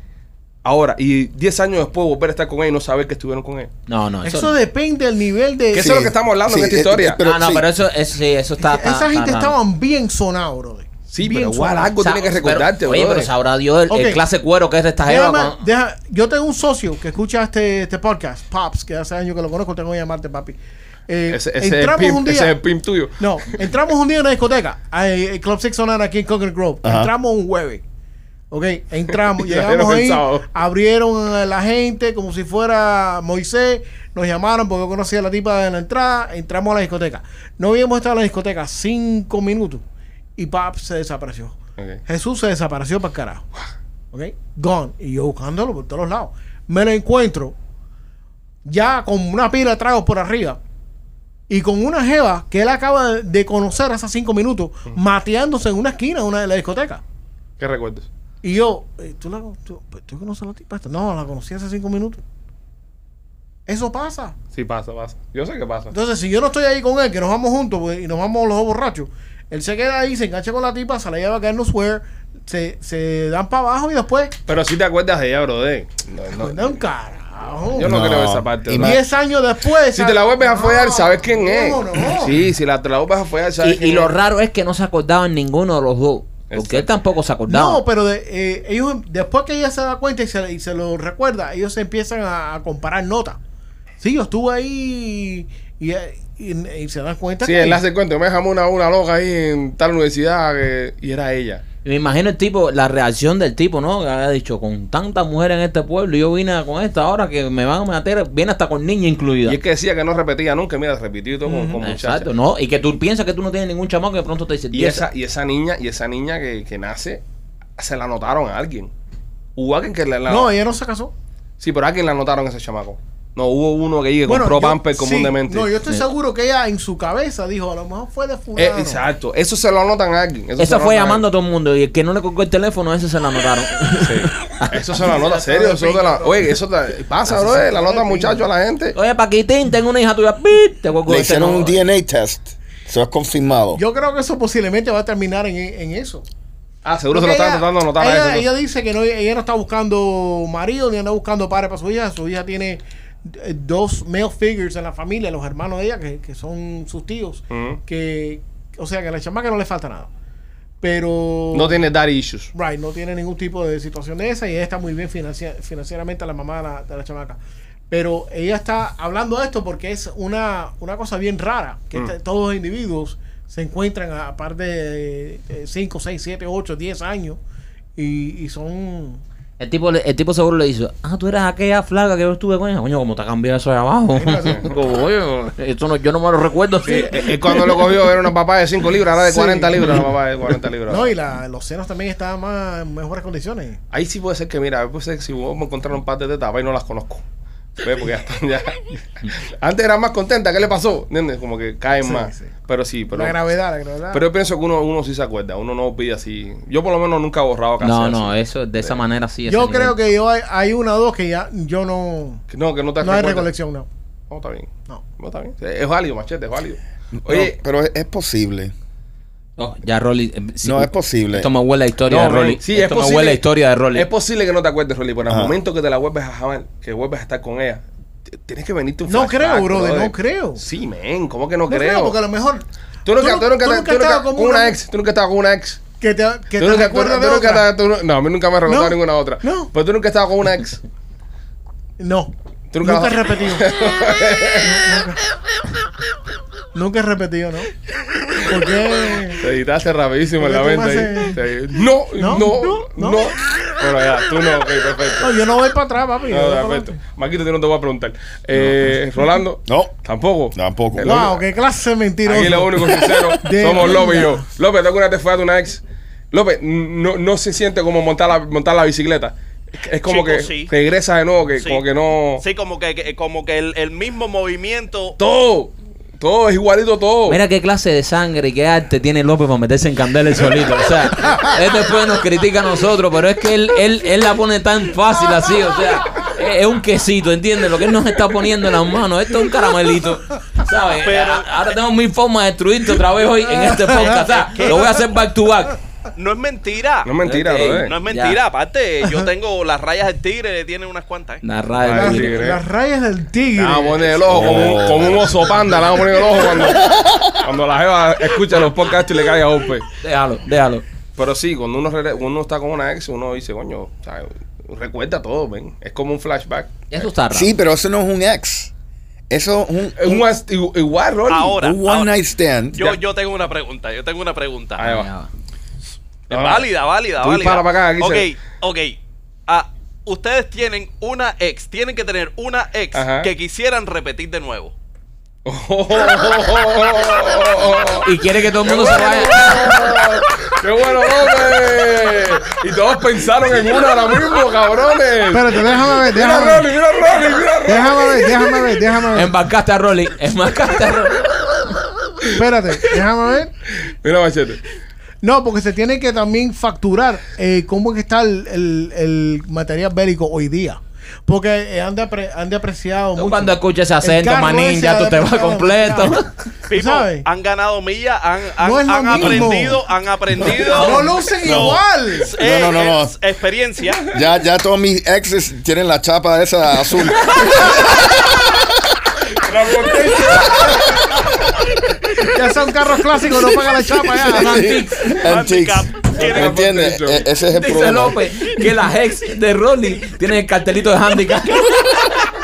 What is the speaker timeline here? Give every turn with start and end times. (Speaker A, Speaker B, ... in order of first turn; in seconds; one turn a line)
Speaker A: 0.6-3.7
Speaker B: 3.9-4.5
Speaker C: 4.2-6.0
Speaker A: 5.7-7.2
Speaker D: 5.7-7.7
Speaker B: 7.2-9.5
Speaker C: 8.6-11.9
Speaker A: 11.1-13.3
Speaker B: 12.0-15.6
Speaker C: 13.9-14.2
Speaker C: 15.0-22.6
Speaker A: 21.3-23.6
Speaker C: 23.2-27.8
Speaker D: 26.8-27.1
Speaker C: 28.5-39.8
Speaker A: 29.3-30.4
Speaker C: 40.4-41.5
Speaker C: 42.1-43.5
Speaker C: 44.1-47.5
Speaker C: 48.6-50.6
Speaker C: 51.5-57.0
Speaker A: 57.6-58.1
Speaker C: 58.4-62.2
Speaker C: 63.6-64.3
Speaker A: 64.5-65.9
Speaker C: 65.9-74.3
Speaker A: 74.5-76.8
Speaker C: 76.3-78.0
Speaker A: 77.7-79.0
Speaker D: 77.8-79.0
Speaker C: 78.7-82.4
Speaker A: 79.9-84.1
Speaker B: 83.6-87.8
Speaker A: 86.5-86.9
Speaker C: 87.5-93.4
Speaker C: 94.0-97.8
Speaker A: 97.4-101.6
Speaker B: 101.8-109.6
Speaker A: 109.5-112.3
Speaker C: 111.5-111.8
Speaker B: 111.8-115.0
Speaker A: 114.7-117.2
Speaker A: 117.8-118.9
Speaker A: 119.5-120.5
Speaker C: 120.3-121.1
Speaker A: 121.6-125.7
Speaker C: 124.2-129.0
Speaker A: 128.6-131.2
Speaker B: 130.6-135.0
Speaker A: 134.0-138.9
Speaker C: 135.0-136.5
Speaker C: 137.3-138.4
Speaker B: 138.9-141.8
Speaker D: 141.1-143.8
Speaker C: 143.7-146.2
Speaker A: 146.8-148.5
Speaker C: 147.1-160.1
Speaker A: 157.5-157.8
Speaker C: 160.8-161.8
Speaker A: 161.5-162.5
Speaker C: 162.5-167.4
Speaker C: 167.9-177.4
Speaker C: 177.9-179.2
Speaker B: 179.6-187.8
Speaker C: 184.1-184.7
Speaker A: 186.8-191.1
Speaker C: 189.2-190.1
Speaker C: 190.9-193.8
Speaker A: 193.9-197.2
Speaker A: 197.8-203.4
Speaker C: 202.0-202.5
Speaker C: 203.1-204.2
Speaker A: 204.1-209.0
Speaker B: 207.8-209.9
Speaker C: 209.5-212.4
Speaker A: 212.5-213.5
Speaker C: 213.0-213.9
Speaker A: 214.3-217.6
Speaker D: 217.1-218.7
Speaker B: 219.6-224.1
Speaker D: 220.6-221.5
Speaker A: 222.1-223.4
Speaker A: 223.9-227.8
Speaker D: 225.3-225.5
Speaker A: 228.3-232.2
Speaker C: 229.1-230.6
Speaker C: 231.7-232.6
Speaker A: 233.0-235.8
Speaker C: 233.2-234.7
Speaker C: 236.0-237.7
Speaker A: 236.6-240.8
Speaker C: 238.7-239.7
Speaker C: 242.0-243.7
Speaker A: 242.7-244.9
Speaker C: 244.6-245.2
Speaker C: 246.7-247.7
Speaker C: 248.5-249.4
Speaker A: 249.4-255.3
Speaker C: 250.4-251.4
Speaker C: 252.2-253.3
Speaker C: 255.2-256.9
Speaker A: 256.3-261.4
Speaker D: 259.7-259.9
Speaker D: 260.5-261.3
Speaker C: 261.0-264.4
Speaker A: 262.2-272.4
Speaker E: 270.0-270.7
Speaker E: 271.6-271.8
Speaker E: 272.4-275.2
Speaker A: 275.2-277.4
Speaker B: 277.3-295.8
Speaker E: 291.0-291.5
Speaker C: 293.6-294.1
Speaker E: 294.2-294.9
Speaker E: 296.1-301.4
Speaker A: 297.0-297.9
Speaker B: 297.2-298.4
Speaker B: 301.4-302.5
Speaker A: 301.8-302.6
Speaker C: 301.9-304.2
Speaker A: 303.6-306.8
Speaker D: 304.3-305.6
Speaker D: 306.4-307.4
Speaker A: 307.4-309.9
Speaker B: 310.0-310.8
Speaker A: 311.2-316.9
Speaker B: 316.9-317.5
Speaker D: 317.3-318.7
Speaker D: 319.3-320.2
Speaker A: 320.0-321.6
Speaker E: 321.3-322.1
Speaker D: 321.6-323.0
Speaker E: 322.7-324.9
Speaker A: 324.8-325.1
Speaker B: 324.8-325.3
Speaker A: 326.3-326.7
Speaker E: 326.3-334.7
Speaker A: 327.2-328.3
Speaker A: 332.9-333.3
Speaker A: 335.4-348.6
Speaker B: 338.0-339.8
Speaker C: 345.3-346.7
Speaker C: 347.6-349.3
Speaker B: 349.1-351.6
Speaker C: 352.3-353.5
Speaker A: 353.8-354.6
Speaker C: 355.2-366.2
Speaker B: 363.1-366.3
Speaker E: 366.7-374.1
Speaker C: 366.7-367.2
Speaker C: 368.6-369.9
Speaker C: 370.6-372.3
Speaker D: 371.4-371.8
Speaker D: 372.4-373.1
Speaker D: 374.1-378.7
Speaker A: 379.3-380.9
Speaker C: 382.2-384.8
Speaker D: 384.1-388.3
Speaker B: 384.3-385.2
Speaker E: 385.2-386.7
Speaker A: 386.1-387.2
Speaker B: 387.5-392.1